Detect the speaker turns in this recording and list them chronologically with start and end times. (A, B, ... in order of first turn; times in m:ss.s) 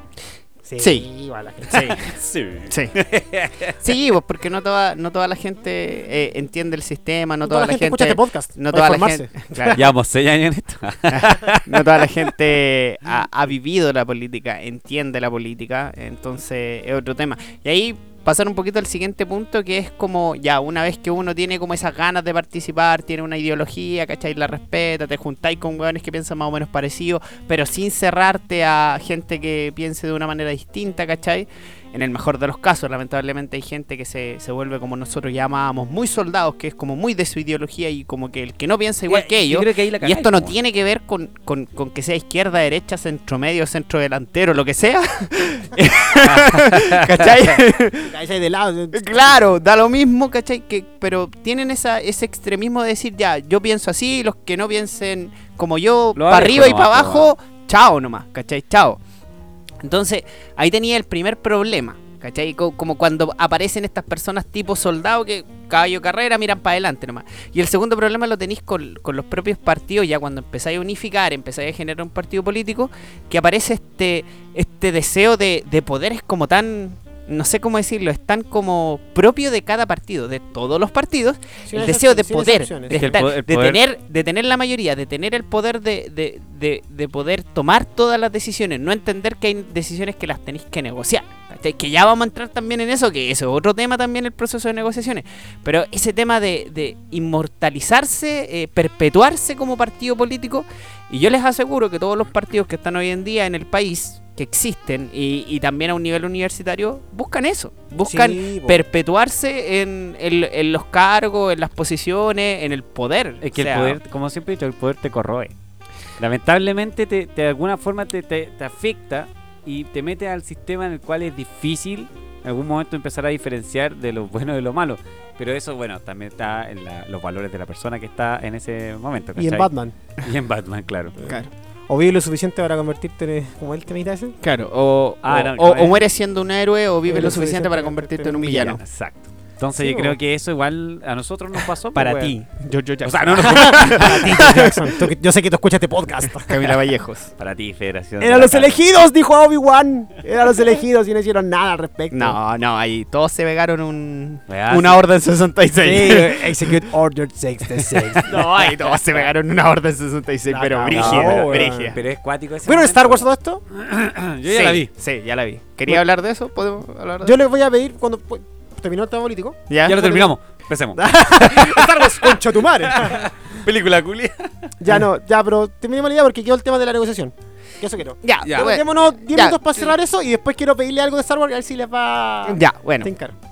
0:00.6-0:01.9 A
0:00.8-0:01.1 B
0:01.7-0:03.8 C
0:01.7-0:02.0 B
0:03.8-0:09.8 B
0:07.4-0:09.8 A
0:09.7-0:12.2 C
0:11.1-0:48.1 B
0:39.1-0:40.6 C
0:46.2-0:47.6 C
0:48.0-0:49.5 A
0:48.9-0:59.0 B
0:56.2-0:57.3 C
0:59.8-1:54.0 B
1:21.6-1:23.1 A
1:22.9-1:23.8 C
1:48.0-1:48.8 A
1:53.4-1:55.5 C
1:56.2-2:11.1 C
2:09.4-2:09.9 A
2:11.2-2:11.5 B
2:11.9-2:14.4 A
2:14.4-2:18.8 B
2:15.2-2:16.0 C
2:17.1-2:18.8 A
2:18.8-2:22.4 C
2:19.8-2:20.2 A
2:21.9-2:25.0 B
2:23.0-2:24.5 C
2:23.4-2:26.7 A
2:26.4-2:27.3 B
2:27.4-2:28.8 C
2:28.2-2:32.4 A
2:32.1-2:36.9 B
2:34.5-2:35.0 C
2:35.8-2:38.8 A
2:37.6-2:42.0 B
2:40.5-2:42.0 A
2:40.9-2:44.9 C
2:42.6-2:43.6 A
2:44.4-2:47.4 B
2:47.2-2:50.3 A
2:49.7-2:50.1 B
2:49.8-2:51.6 C
2:50.9-2:53.2 A
2:52.8-2:54.7 C
2:54.8-3:03.3 A
2:58.2-2:59.9 B
2:58.4-2:58.7 C
3:02.4-3:03.1 B